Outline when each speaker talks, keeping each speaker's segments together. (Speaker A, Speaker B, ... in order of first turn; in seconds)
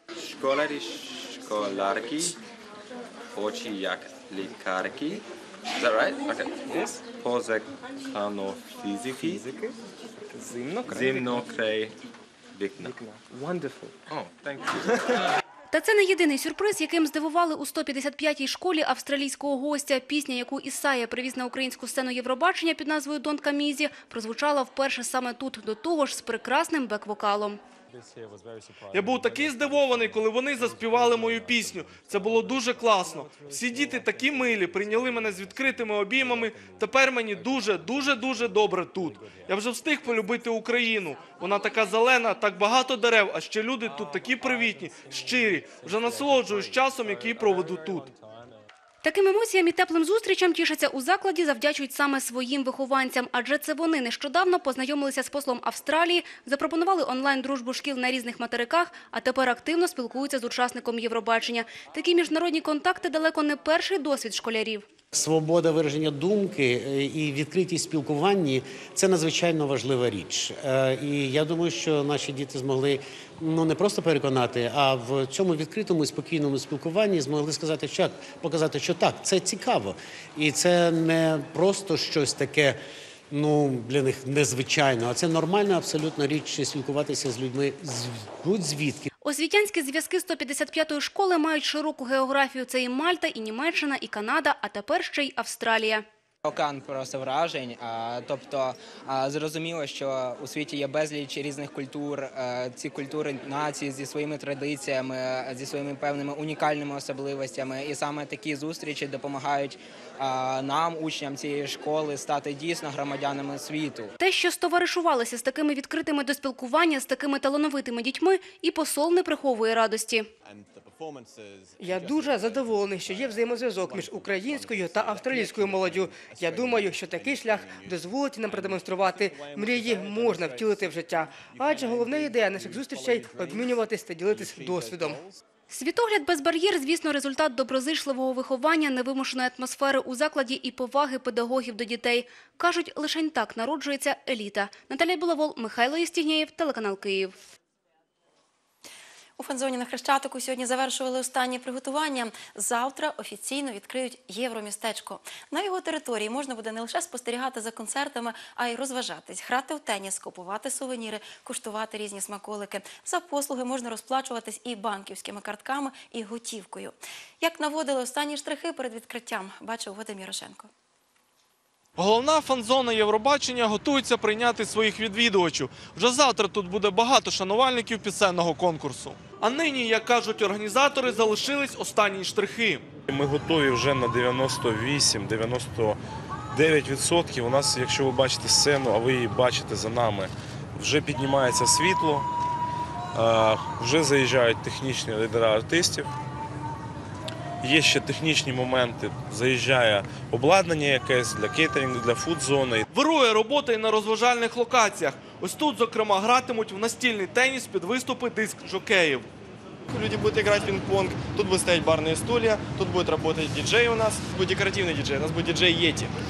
Speaker A: 0.2-2.4, 3.3-5.2, 5.8-9.7, 10.3-11.9, 12.5-14.6
Speaker B: 15.7-27.6, 49.0-64.8, 89.2-96.0, 114.2-120.3, 135.7-147.4
Speaker C: 28.9-48.1, 172.0-182.8, 202.9-209.3
Speaker D: 65.1-82.8, 83.3-89.1
Speaker E: 96.4-114.1
Speaker F: 121.8-135.2
Speaker G: 149.4-170.7
Speaker H: 183.1-186.0, 186.5-192.3, 193.1-196.1, 197.6-202.8
Speaker I: 209.9-211.2, 212.3-216.1